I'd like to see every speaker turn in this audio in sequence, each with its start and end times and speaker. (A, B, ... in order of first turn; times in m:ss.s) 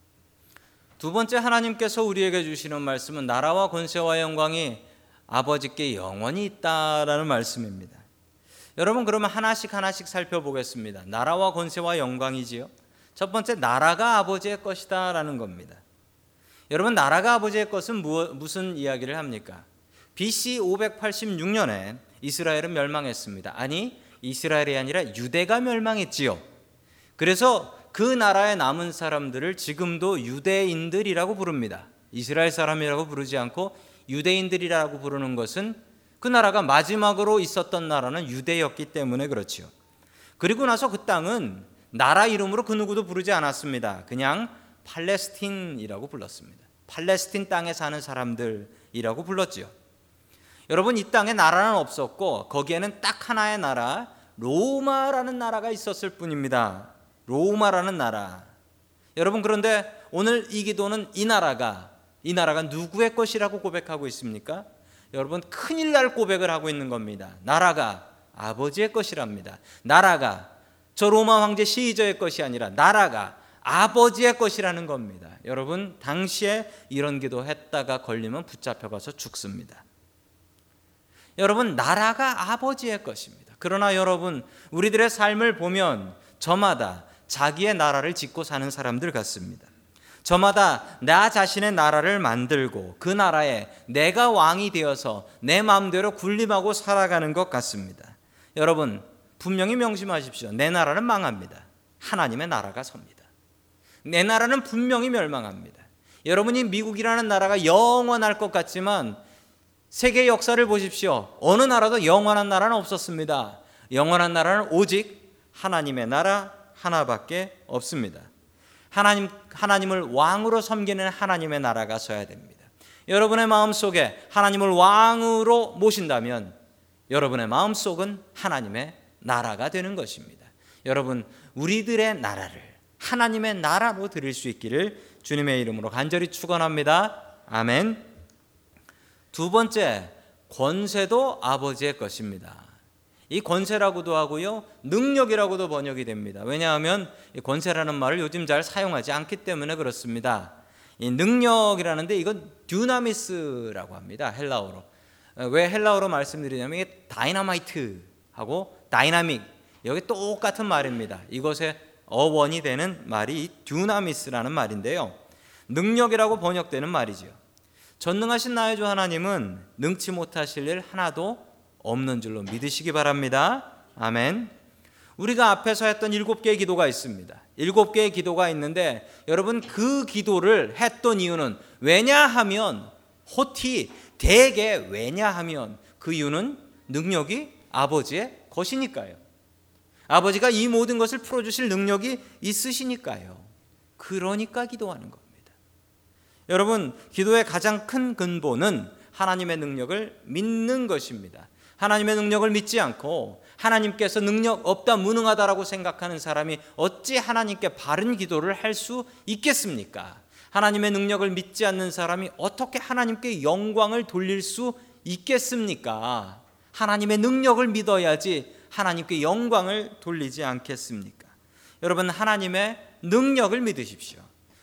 0:01.0-0:08.0 A
0:08.8-0:15.8 A
0:16.7-0:26.4 A
0:27.2-0:39.7 A
0:40.4-0:49.7 A
0:50.7-0:58.5 A
0:59.2-1:19.8 A
1:21.4-1:29.7 A
1:30.2-1:43.3 A
1:44.0-1:49.2 A
1:49.9-1:58.3 A
1:58.9-2:06.6 A
2:07.1-2:18.1 A
2:19.3-2:22.7 A
2:23.3-2:47.4 A
2:48.0-2:54.5 A
2:55.2-3:09.2 A
3:10.1-3:15.5 A
3:16.5-3:44.3 A